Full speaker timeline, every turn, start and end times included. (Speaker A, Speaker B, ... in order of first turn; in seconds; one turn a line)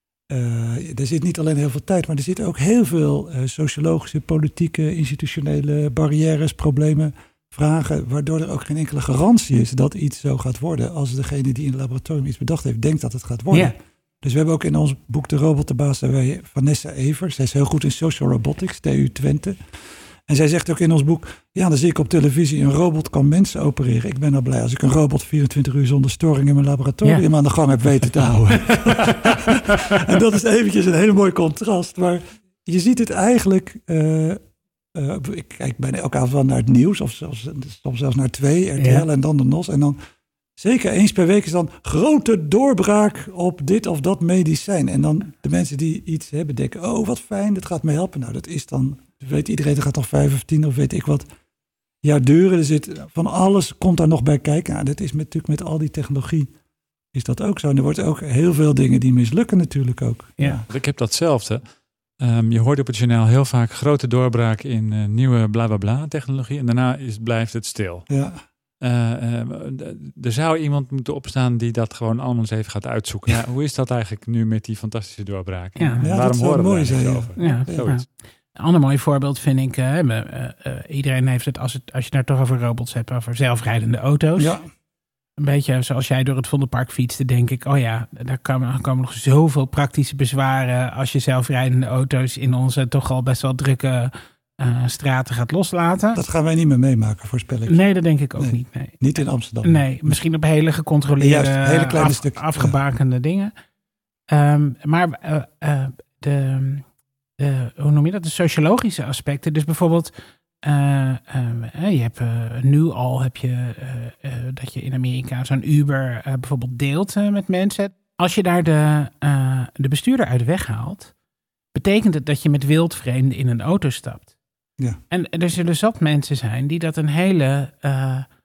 Speaker A: 0.3-19.6
Speaker A: 20.3-34.4
Speaker B: 29.7-30.0
Speaker A: 34.9-40.0
Speaker B: 38.8-39.0
Speaker A: 40.6-51.2
Speaker A: 52.0-56.5
Speaker A: 57.1-60.6
Speaker C: 60.7-61.6
Speaker C: 62.2-68.1
Speaker A: 68.1-68.4
Speaker C: 68.8-78.0
Speaker B: 75.8-76.0
Speaker A: 76.0-77.9
Speaker B: 77.4-84.6
Speaker A: 84.4-84.6
Speaker B: 85.4-96.2
Speaker A: 96.1-97.8
Speaker B: 97.7-99.0
Speaker A: 98.4-100.2
Speaker B: 99.6-103.5
Speaker A: 101.2-102.7
Speaker B: 104.3-106.8
Speaker B: 107.4-110.1
Speaker B: 110.6-121.1
Speaker B: 121.7-124.3
Speaker B: 125.1-128.3